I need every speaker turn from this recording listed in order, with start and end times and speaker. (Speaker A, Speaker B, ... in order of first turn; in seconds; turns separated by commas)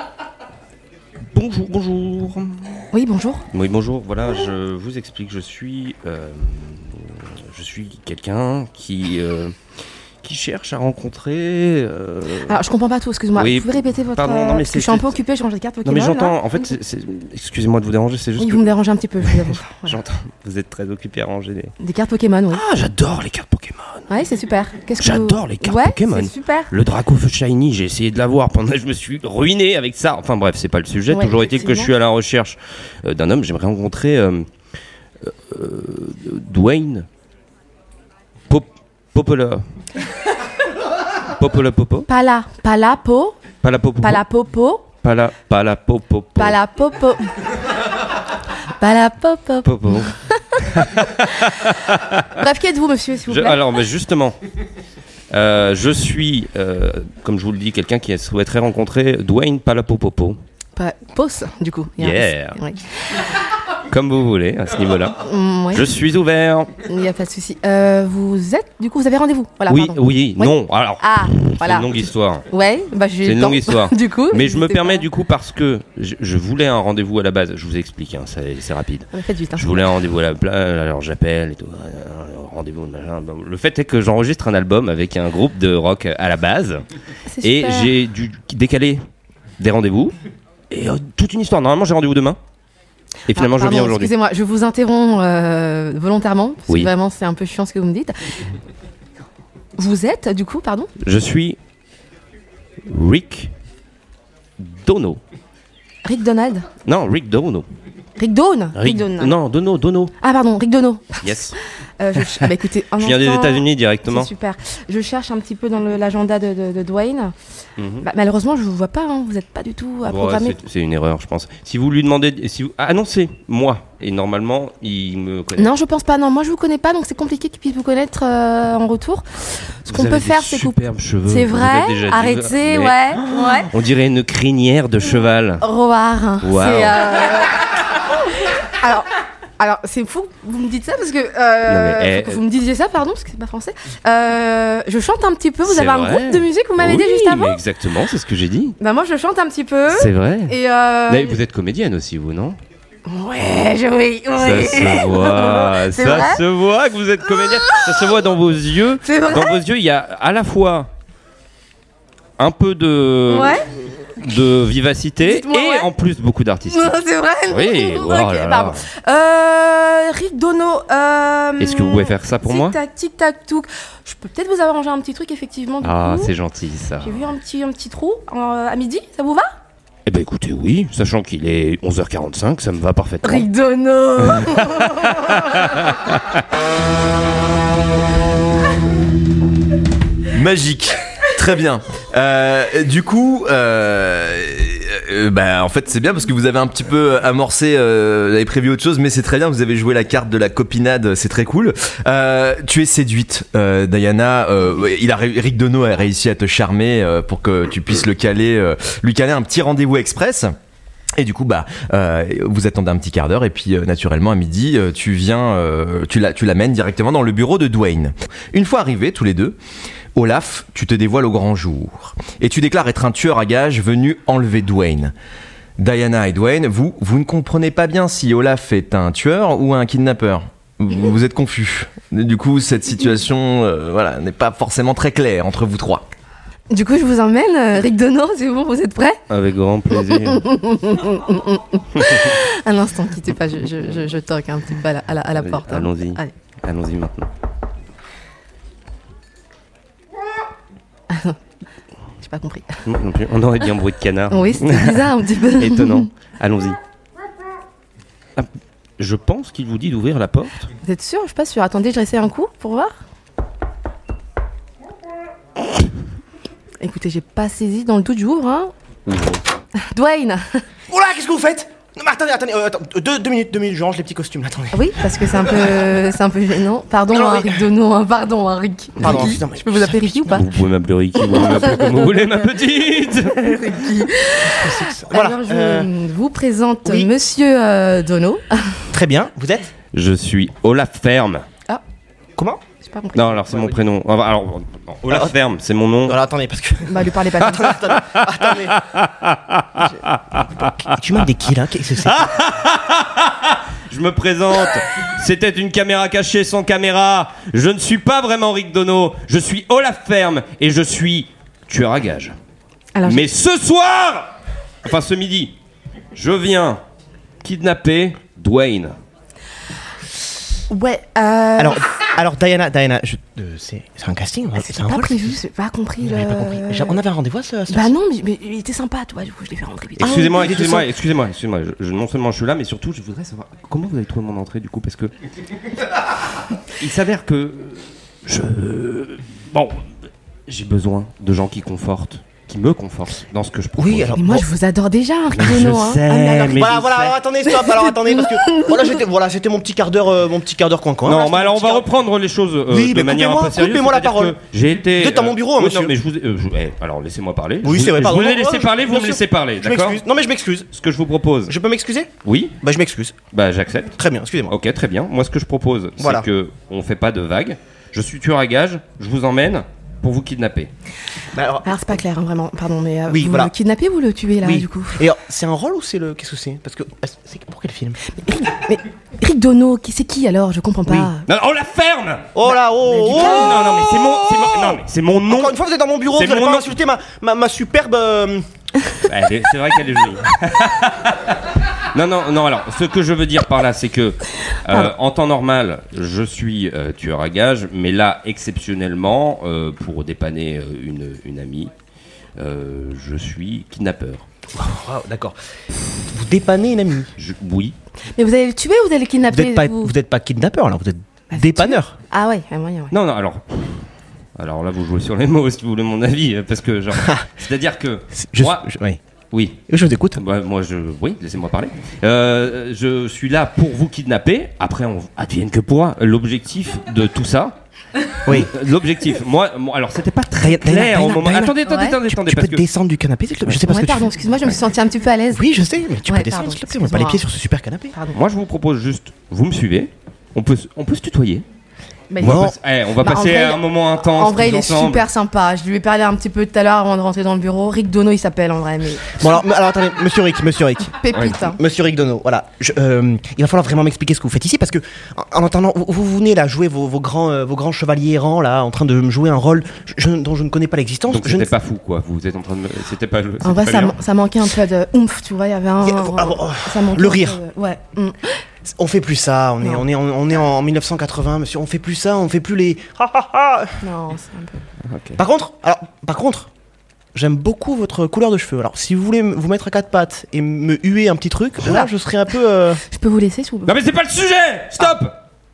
Speaker A: 1.3-2.8, Speaker B: 2.9-3.5, Speaker A: 3.5-9.6, Speaker A: 10.2-12.6, Speaker B: 12.4-16.4, Speaker A: 13.3-15.2, Speaker A: 15.8-18.7, Speaker B: 18.4-20.0, Speaker A: 19.2-21.7, Speaker B: 21.8-22.6, Speaker A: 22.5-24.1, Speaker B: 24.1-26.7, Speaker A: 25.0-34.5, Speaker B: 31.1-31.9, Speaker A: 35.2-37.1, Speaker A: 38.5-39.6, Speaker A: 41.4-42.1, Speaker B: 42.1-43.4, Speaker A: 43.6-44.2, Speaker B: 44.0-44.9, Speaker A: 45.0-46.6, Speaker B: 46.4-47.3, Speaker B: 48.8-50.7, Speaker A: 49.6-52.4, Speaker B: 52.4-53.8, Speaker A: 53.3-54.4, Speaker A: 55.3-60.4, Speaker B: 60.8-62.8, Speaker A: 62.0-62.6, Speaker A: 63.9-65.2, Speaker B: 65.2-65.9, Speaker A: 65.7-66.7, Speaker B: 66.8-71.9, Speaker A: 69.7-72.5, Speaker B: 72.5-75.0, Speaker A: 73.2-86.8, Speaker B: 79.1-79.7, Speaker B: 87.3-87.9, Speaker A: 87.4-89.0, Speaker A: 89.6-90.1, Speaker A: 90.7-92.4, Speaker A: 93.3-94.1, Speaker B: 93.3-98.2, Speaker B: 99.8-100.9, Speaker A: 101.0-101.6, Speaker A: 102.8-103.5, Speaker A: 104.6-105.2, Speaker B: 106.0-106.7, Speaker A: 106.8-107.7, Speaker B: 108.2-109.3, Speaker A: 108.7-110.1, Speaker B: 110.2-117.3, Speaker A: 111.2-111.5, Speaker A: 112.2-114.3, Speaker A: 117.8-118.1, Speaker B: 118.0-120.6, Speaker A: 120.0-125.8, Speaker B: 125.5-129.2, Speaker B: 129.8-133.7, Speaker A: 129.9-135.6, Speaker B: 135.6-147.6, Speaker A: 136.4-137.0, Speaker A: 141.7-142.4, Speaker A: 145.6-148.8, Speaker B: 148.8-151.4, Speaker A: 149.9-152.6, Speaker B: 153.1-156.4, Speaker A: 154.4-160.9, Speaker B: 157.3-158.1, Speaker B: 159.0-159.6, Speaker A: 162.4-163.6, Speaker B: 163.3-163.7, Speaker A: 164.2-167.0, Speaker B: 165.2-165.9, Speaker B: 166.7-176.3, Speaker A: 167.5-168.8, Speaker A: 171.6-172.8, Speaker A: 175.8-177.2, Speaker B: 177.0-179.5, Speaker A: 180.1-183.5, Speaker B: 183.2-185.9, Speaker A: 184.2-186.4, Speaker C: 190.3-210.5, Speaker C: 211.2-219.6, Speaker C: 220.1-225.1, Speaker C: 225.8-236.0, Speaker B: 236.7-239.2, Speaker A: 239.3-240.5, Speaker B: 240.0-246.3, Speaker A: 242.0-242.3, Speaker A: 245.4-247.3, Speaker B: 251.1-251.4, Speaker B: 252.2-252.8, Speaker A: 252.8-256.8, Speaker B: 254.3-256.1, Speaker A: 258.4-260.7, Speaker B: 260.8-262.9, Speaker B: 266.8-268.7, Speaker A: 269.1-269.4, Speaker B: 269.8-270.6, Speaker D: 270.9-275.9, Speaker B: 274.7-280.5, Speaker D: 277.1-277.6, Speaker D: 279.0-280.5, Speaker A: 279.0-279.3, Speaker A: 280.3-283.6, Speaker B: 281.2-282.1, Speaker B: 283.4-288.8, Speaker D: 284.4-285.9, Speaker D: 286.8-287.1, Speaker D: 288.9-289.8, Speaker A: 289.9-291.4, Speaker B: 292.8-293.4, Speaker A: 293.1-296.2, Speaker D: 293.5-293.8, Speaker D: 295.1-295.4, Speaker D: 296.0-298.8, Speaker B: 296.9-297.9, Speaker A: 298.7-300.7, Speaker D: 300.8-302.3, Speaker A: 302.0-312.3, Speaker B: 312.9-313.3, Speaker A: 313.0-315.6, Speaker A: 316.1-316.8, Speaker A: 317.4-318.9, Speaker B: 320.7-321.8, Speaker D: 321.6-325.4, Speaker B: 324.6-327.0, Speaker D: 326.0-327.9, Speaker B: 327.7-330.4, Speaker A: 330.0-335.1, Speaker D: 330.0-330.9, Speaker A: 336.8-339.9, Speaker A: 340.5-344.2, Speaker D: 343.8-344.4, Speaker B: 344.1-346.6, Speaker A: 345.3-347.2, Speaker D: 346.4-351.9, Speaker B: 347.5-349.0, Speaker A: 351.0-360.0, Speaker D: 352.7-355.9, Speaker D: 357.6-360.7, Speaker A: 360.7-361.5, Speaker D: 361.5-363.2, Speaker A: 362.2-362.6, Speaker A: 363.3-363.9, Speaker D: 363.9-364.6, Speaker A: 364.5-370.7, Speaker D: 366.0-366.3, Speaker D: 371.3-372.0, Speaker B: 371.6-375.0, Speaker D: 373.1-373.5, Speaker D: 374.4-378.0, Speaker B: 378.1-381.2, Speaker D: 380.9-381.1, Speaker A: 381.3-385.6, Speaker D: 382.3-388.4, Speaker B: 382.9-383.6, Speaker A: 386.1-386.7, Speaker A: 389.1-401.7, Speaker A: 402.4-404.2, Speaker D: 404.5-405.3, Speaker D: 406.1-407.1, Speaker A: 407.2-407.7, Speaker B: 408.1-409.9, Speaker D: 409.3-411.9, Speaker B: 411.3-412.9, Speaker A: 412.9-418.6, Speaker D: 416.9-417.3, Speaker D: 418.1-419.0, Speaker A: 419.3-419.6, Speaker D: 419.7-420.2, Speaker A: 420.1-427.6, Speaker D: 428.2-428.5, Speaker A: 428.3-432.6, Speaker D: 430.4-434.3, Speaker B: 431.6-432.0, Speaker B: 433.6-435.5, Speaker D: 435.3-437.9, Speaker B: 436.0-437.2, Speaker B: 437.9-438.2, Speaker A: 438.1-441.4, Speaker B: 442.1-449.2, Speaker A: 442.2-445.1, Speaker D: 442.2-442.6, Speaker D: 449.2-461.5, Speaker B: 450.9-451.6, Speaker A: 461.1-464.0, Speaker B: 463.4-468.3, Speaker D: 465.8-467.4, Speaker D: 468.6-473.8, Speaker B: 473.8-474.6, Speaker A: 474.9-475.2, Speaker D: 475.2-476.5, Speaker D: 477.1-482.8, Speaker B: 481.6-481.9, Speaker B: 482.8-483.8, Speaker A: 483.6-485.2